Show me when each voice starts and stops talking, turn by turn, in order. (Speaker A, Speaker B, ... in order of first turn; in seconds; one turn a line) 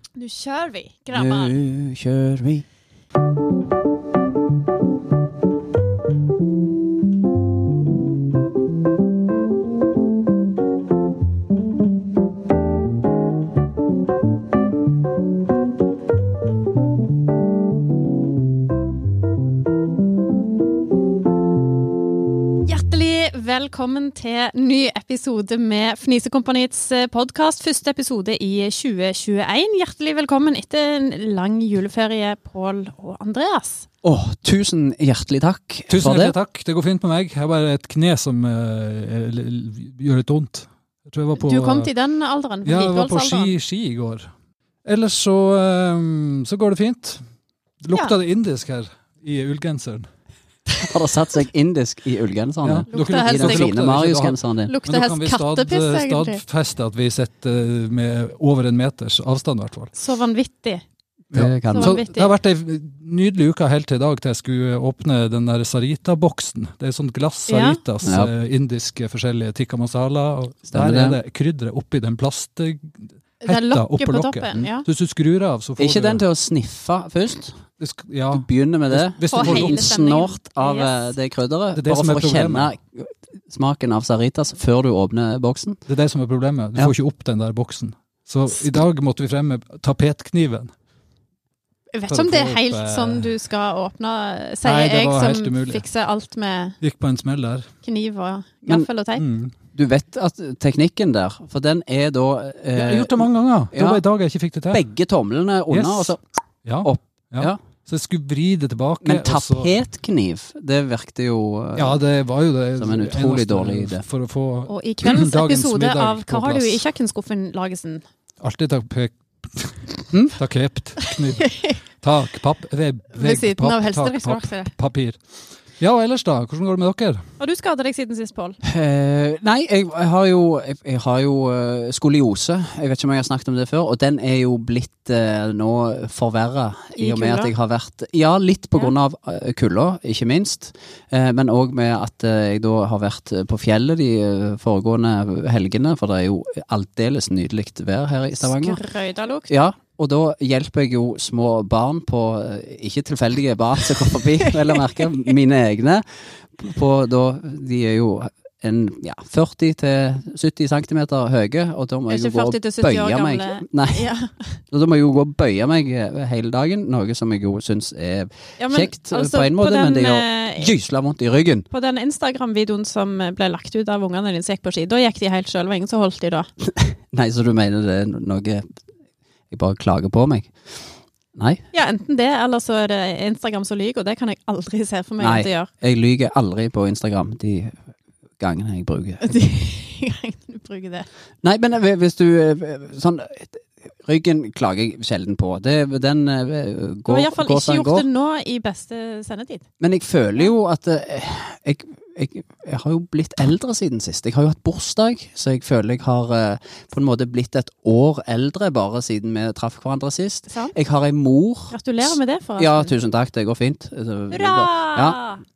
Speaker A: 0.2-1.6
Speaker B: 1.1-2.7
Speaker A: 22.6-33.9
Speaker B: 34.0-36.4
Speaker C: 35.9-41.9
Speaker A: 41.3-43.5
Speaker C: 42.7-44.3
Speaker C: 44.9-47.2
Speaker C: 47.8-50.1
Speaker B: 50.8-54.7
Speaker C: 52.6-59.9
Speaker A: 52.9-53.7
Speaker A: 54.7-56.4
Speaker A: 60.0-60.8
Speaker C: 61.3-76.2
Speaker B: 61.3-62.0
Speaker A: 61.7-62.3
Speaker A: 67.5-67.8
Speaker B: 68.0-68.3
Speaker B: 70.7-71.2
Speaker A: 73.4-74.8
Speaker B: 75.8-77.6
Speaker C: 77.8-80.0
Speaker B: 78.3-85.8
Speaker A: 79.3-81.1
Speaker C: 81.7-82.7
Speaker C: 85.9-90.7
Speaker A: 91.9-96.8
Speaker C: 92.1-93.3
Speaker C: 94.6-95.8
Speaker C: 96.8-97.7
Speaker A: 97.8-99.2
Speaker C: 99.2-99.6
Speaker B: 99.8-104.0
Speaker C: 102.8-104.8
Speaker B: 104.7-106.2
Speaker C: 105.7-106.1
Speaker C: 106.7-109.7
Speaker B: 106.8-107.6
Speaker B: 109.0-112.0
Speaker C: 111.8-116.8
Speaker B: 112.8-114.0
Speaker A: 114.7-118.0
Speaker C: 118.4-119.8
Speaker B: 120.1-120.4
Speaker C: 120.3-125.2
Speaker A: 121.0-121.8
Speaker A: 123.2-124.7
Speaker C: 125.8-127.2
Speaker A: 127.4-128.6
Speaker B: 128.6-148.8
Speaker A: 137.0-137.5
Speaker A: 148.4-149.5
Speaker B: 149.5-164.1
Speaker A: 162.1-164.3
Speaker B: 164.7-171.7
Speaker A: 168.6-170.7
Speaker A: 171.7-176.5
Speaker B: 176.7-178.7
Speaker B: 179.5-180.6
Speaker B: 181.3-181.6
Speaker A: 181.7-185.7
Speaker B: 185.2-187.8
Speaker B: 188.4-189.3
Speaker A: 189.2-191.1
Speaker B: 191.4-198.1
Speaker A: 197.1-199.6
Speaker B: 199.8-215.2
Speaker A: 211.7-212.9
Speaker A: 214.3-215.4